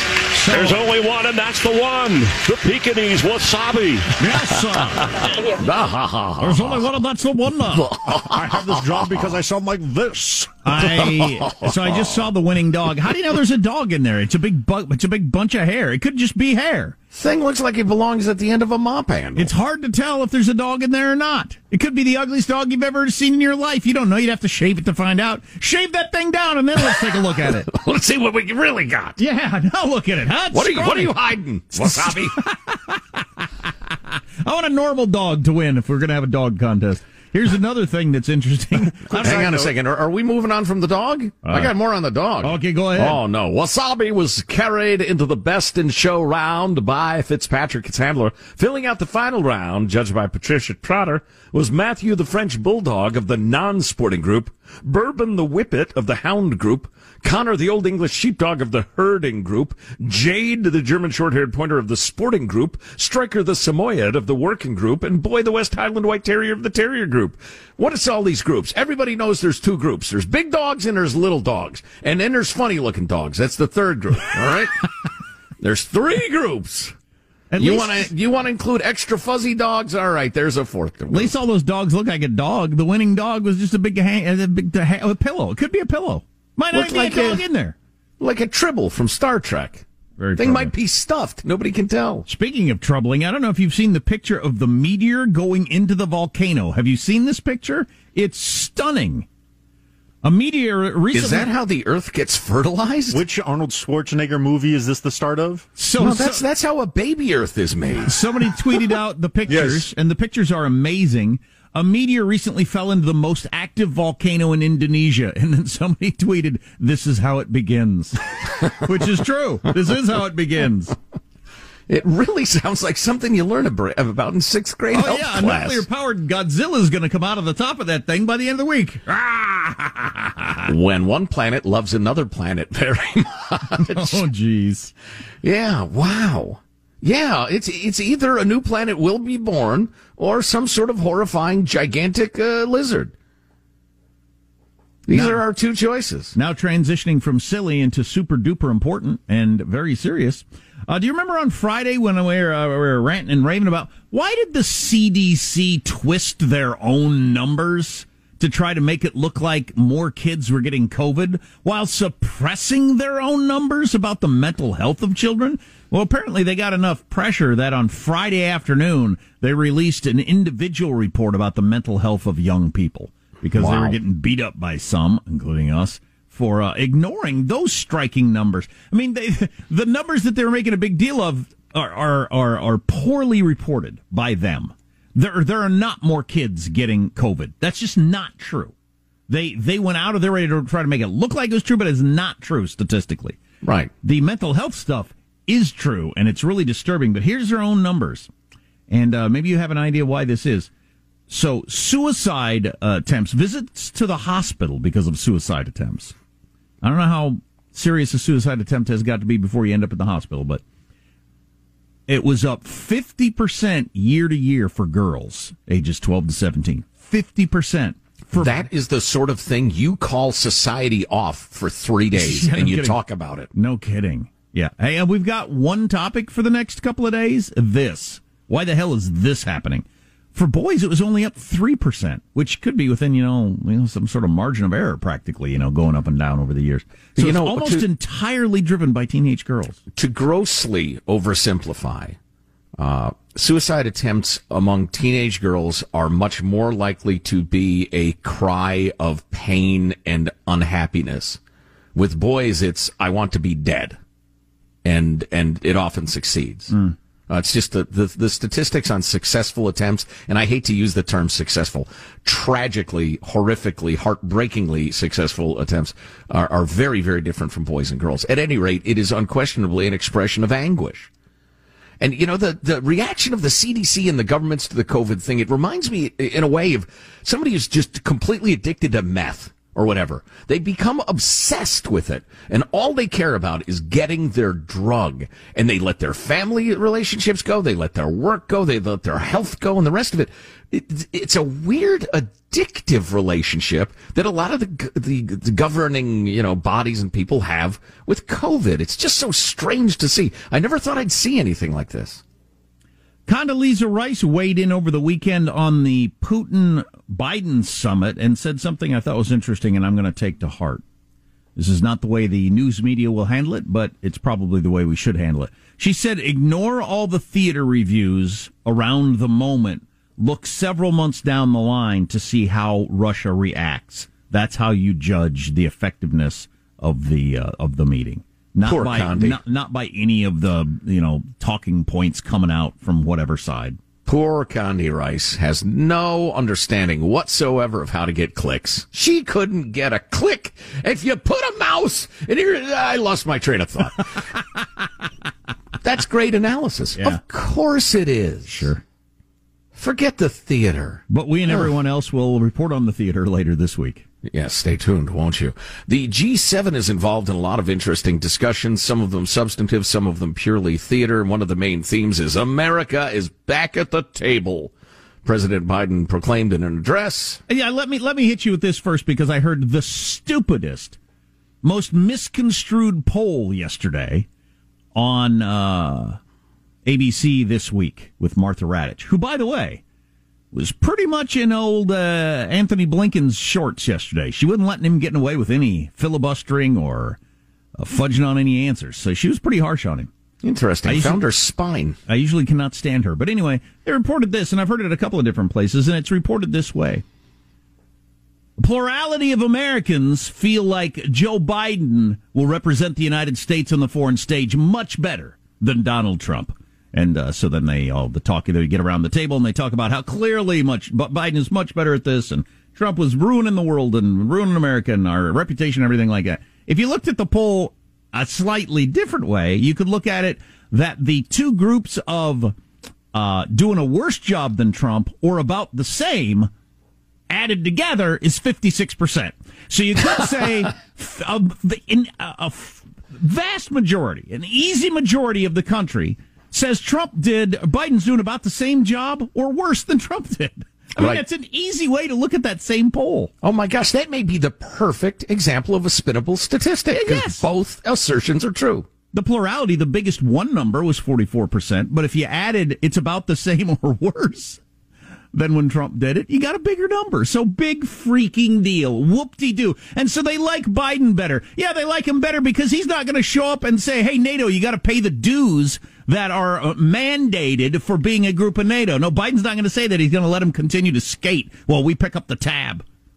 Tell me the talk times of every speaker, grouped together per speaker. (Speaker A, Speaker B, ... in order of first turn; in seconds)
Speaker A: 0.3-0.8, 4.2-5.2, 6.4-7.9, 10.6-16.9, 19.4-27.7, 29.2-31.1, 31.7-33.2, 34.4-39.6, 41.4-41.7, 42.4-43.2, 77.5-78.1, 81.1-87.7, 90.2-90.7, 92.3-99.3, 100.2-101.5, 105.8-106.4, 108.0-120.9, 124.9-130.7, 133.7-134.9, 145.1-145.4, 146.3-188.7, 189.3-193.4, 194.0-198.3, 198.9-200.7, 201.3-206.1, 206.8-210.6, 212.1-218.6, 222.1-223.0, 223.5-239.8, 256.7-256.9, 303.3-310.8, 311.6-333.8, 347.0-347.2, 348.5-348.8, 351.1-354.1, 367.5-371.0, 371.6-374.3, 374.9-376.2, 376.8-379.8, 380.5-387.2, 387.8-390.1, 390.9-391.2, 392.1-397.0, 398.6-422.5, 423.1-426.5, 427.3-443.3, 446.9-447.4, 449.1-454.6, 455.3-472.8
Speaker B: 0.5-4.1
Speaker C: 5.6-6.8, 7.7-9.4, 11.3-12.2, 17.1-19.5, 26.9-29.2, 30.5-32.4, 39.0-74.8, 75.6-76.9, 77.6-81.3, 86.7-87.4, 88.2-89.8, 90.4-92.2, 101.1-103.2, 106.0-108.2, 121.9-125.8, 130.7-134.2, 135.4-143.1, 145.1-146.3, 173.5-174.0, 193.6-193.9, 218.3-223.5, 237.2-237.8, 239.9-242.2, 242.8-251.4, 251.9-254.0, 254.8-256.7, 257.3-271.1, 272.0-302.2, 328.6-329.4, 334.1-344.3, 345.8-348.7, 349.8-351.7, 354.2-364.7, 365.2-367.4, 390.4-392.0, 443.4-448.9
Speaker D: 8.1-10.6, 39.2-39.6, 103.1-105.7